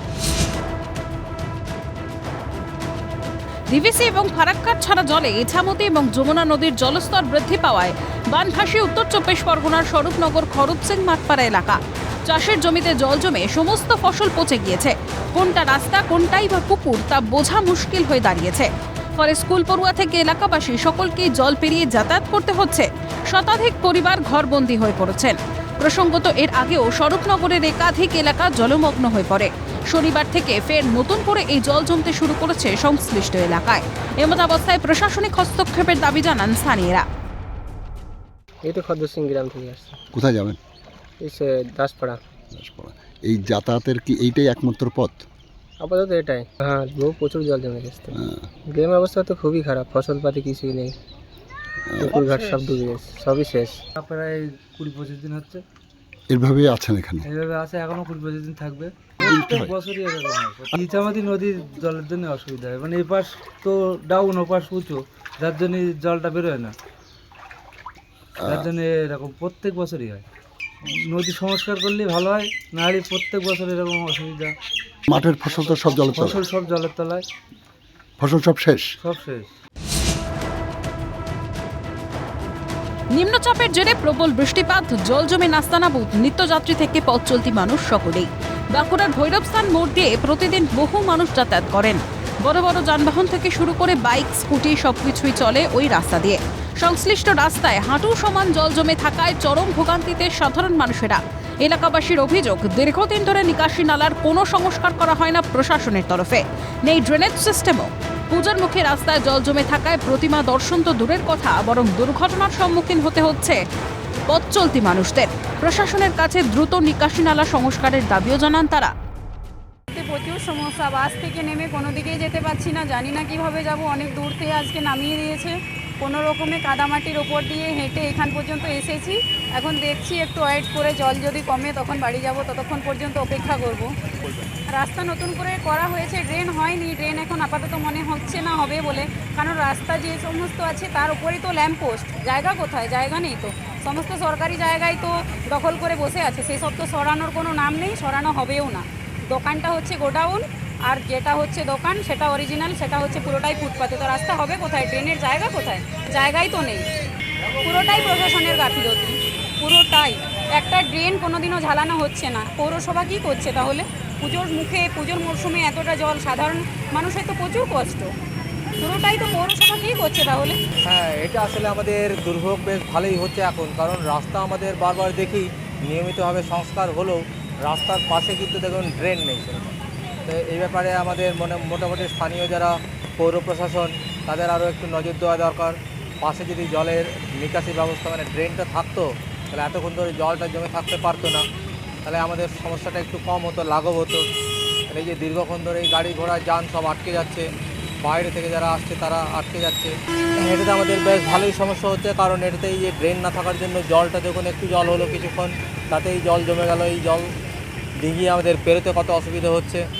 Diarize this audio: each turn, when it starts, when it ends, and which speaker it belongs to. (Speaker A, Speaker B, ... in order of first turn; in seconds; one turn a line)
Speaker A: 3.7-37.0
Speaker B: 38.6-40.0
Speaker C: 40.1-40.6
Speaker B: 41.2-42.2
Speaker C: 42.5-45.2
Speaker B: 45.8-48.1
Speaker C: 48.2-48.5
Speaker B: 48.7-51.0
Speaker C: 51.9-52.2
Speaker B: 52.0-53.8
Speaker D: 54.0-55.6
Speaker C: 56.3-57.2
Speaker D: 57.3-66.7
Speaker C: 59.2-59.7
Speaker C: 68.4-68.6
Speaker D: 68.5-70.2
Speaker D: 70.8-74.5
Speaker C: 75.1-76.4
Speaker D: 76.2-77.2
Speaker C: 78.2-78.9
Speaker D: 79.0-79.5
Speaker A: 83.1-113.6
Speaker A: 114.3-118.9
Speaker E: 119.9-156.9
Speaker E: 157.6-168.1
Speaker E: 168.8-170.6
Speaker F: 170.8-179.7
Speaker F: 180.2-191.4
Speaker F: 192.1-194.2
Speaker F: 194.9-197.4
Speaker F: 198.0-199.9
Speaker F: 200.4-207.3
Speaker F: 208.0-209.8